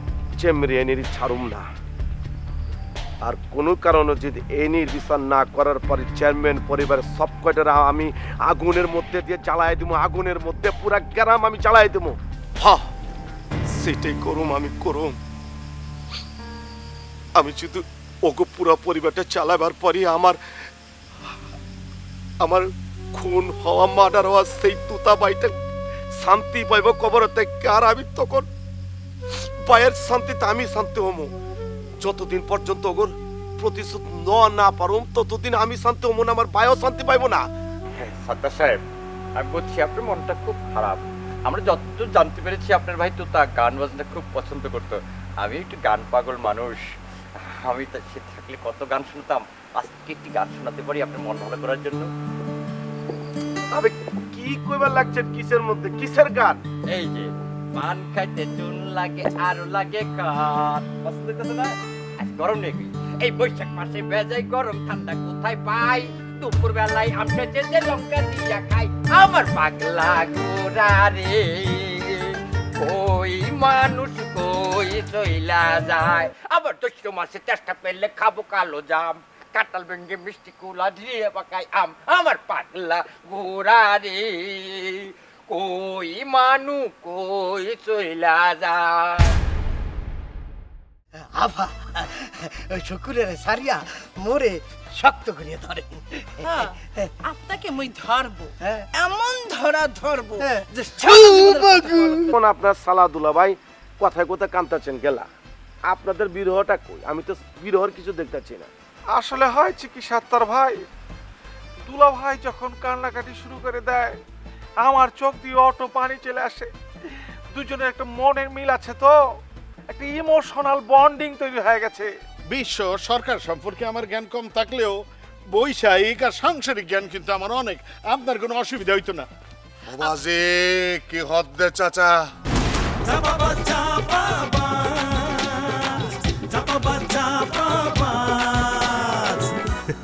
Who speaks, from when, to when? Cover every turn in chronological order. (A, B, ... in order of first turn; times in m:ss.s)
0:00.4-0:01.6 A
0:03.2-0:12.9 A
0:13.7-0:15.2 A
0:17.4-0:20.4 A
0:22.4-0:25.5 A
0:26.1-0:28.4 A
0:29.3-0:31.3 A
0:32.0-0:37.4 A
0:37.9-0:38.8 B
0:39.4-0:46.8 B
0:47.6-0:52.1 B
0:53.7-0:56.6 A
0:56.9-1:12.2 B
1:12.8-1:29.3 B
1:31.2-1:36.5 C
1:36.4-1:42.4 D
1:40.4-1:41.8 C
1:42.3-1:45.3 A
1:45.9-1:48.7 A
1:49.1-1:50.8 E
1:51.8-1:54.2 E
1:54.8-1:56.7 E
1:57.5-1:59.2 E
1:59.9-2:02.1 E
2:02.5-2:05.0 F
2:05.5-2:09.3 F
2:09.9-2:12.1 G
2:13.0-2:19.5 H